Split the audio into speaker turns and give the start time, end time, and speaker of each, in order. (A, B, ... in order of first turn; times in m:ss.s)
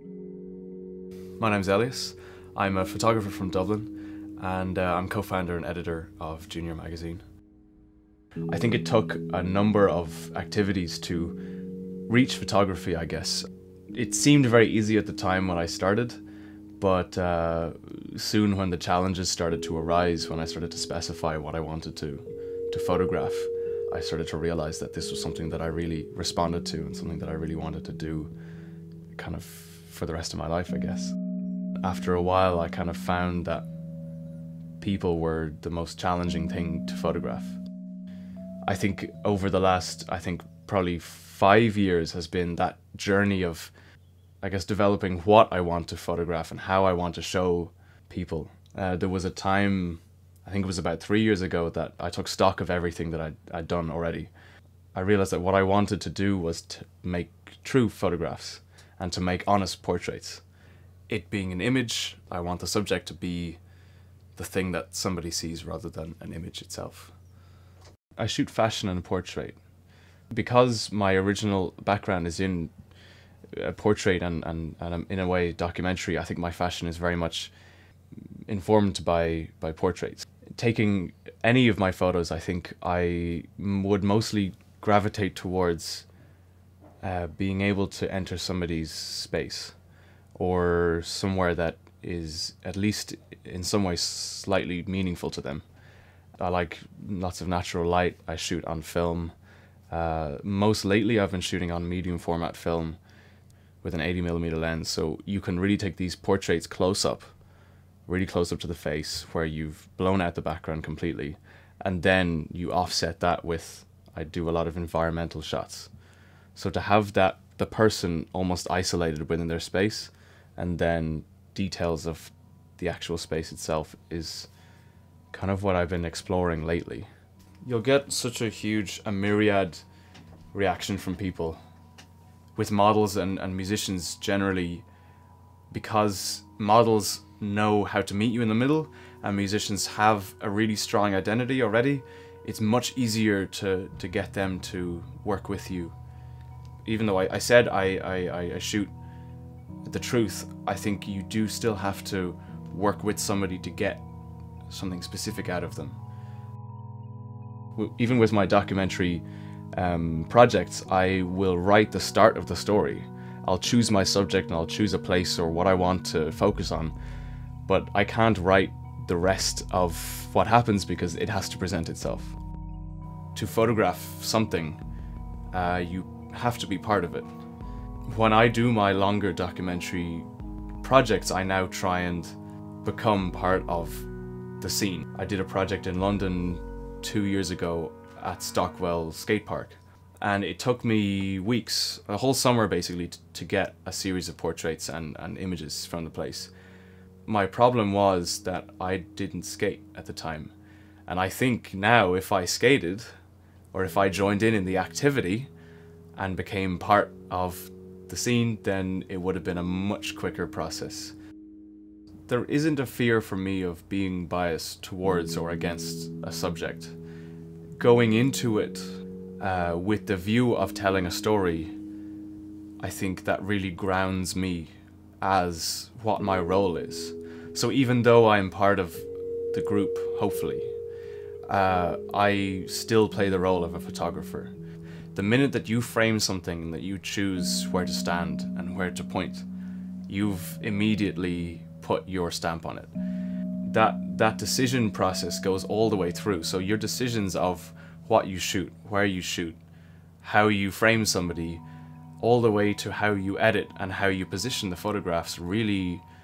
0:01.4-0:07.2 A
0:08.5-0:11.4 A
0:12.1-0:16.2 A
0:16.8-0:28.3 A
0:29.1-0:31.2 A
0:31.8-0:33.7 A
0:34.8-0:37.6 A
0:38.7-0:43.7 A
0:44.4-0:54.3 A
0:54.9-1:00.4 A
1:01.1-1:03.6 A
1:04.4-1:07.1 A
1:08.2-1:09.6 A
1:10.3-1:12.7 A
1:13.5-1:17.5 A
1:18.5-1:26.1 A
1:27.0-1:29.8 A
1:30.4-1:35.6 A
1:36.4-1:39.3 A
1:39.9-1:43.0 A
1:43.8-1:47.3 A
1:48.1-1:55.9 A
1:56.6-2:04.5 A
2:05.3-2:07.1 A
2:07.6-2:09.8 A
2:10.5-2:11.6 A
2:12.6-2:14.9 A
2:15.7-2:26.0 A
2:26.8-2:28.9 A
2:29.8-2:34.0 A
2:34.7-2:36.0 A
2:37.8-2:39.2 A
2:39.8-2:47.0 A
2:47.7-2:52.4 A
2:53.3-2:54.8 A
2:55.5-2:57.3 A
2:58.1-3:00.3 A
3:00.8-3:04.1 A
3:04.6-3:16.5 A
3:17.3-3:20.5 A
3:21.1-3:23.1 A
3:23.7-3:25.5 A
3:26.2-3:31.2 A
3:32.3-3:37.0 A
3:37.8-3:41.8 A
3:42.8-3:50.7 A
3:51.5-3:54.6 A
3:55.1-3:59.5 A
4:00.1-4:02.9 A
4:03.6-4:09.6 A
4:10.2-4:11.6 A
4:12.2-4:16.0 A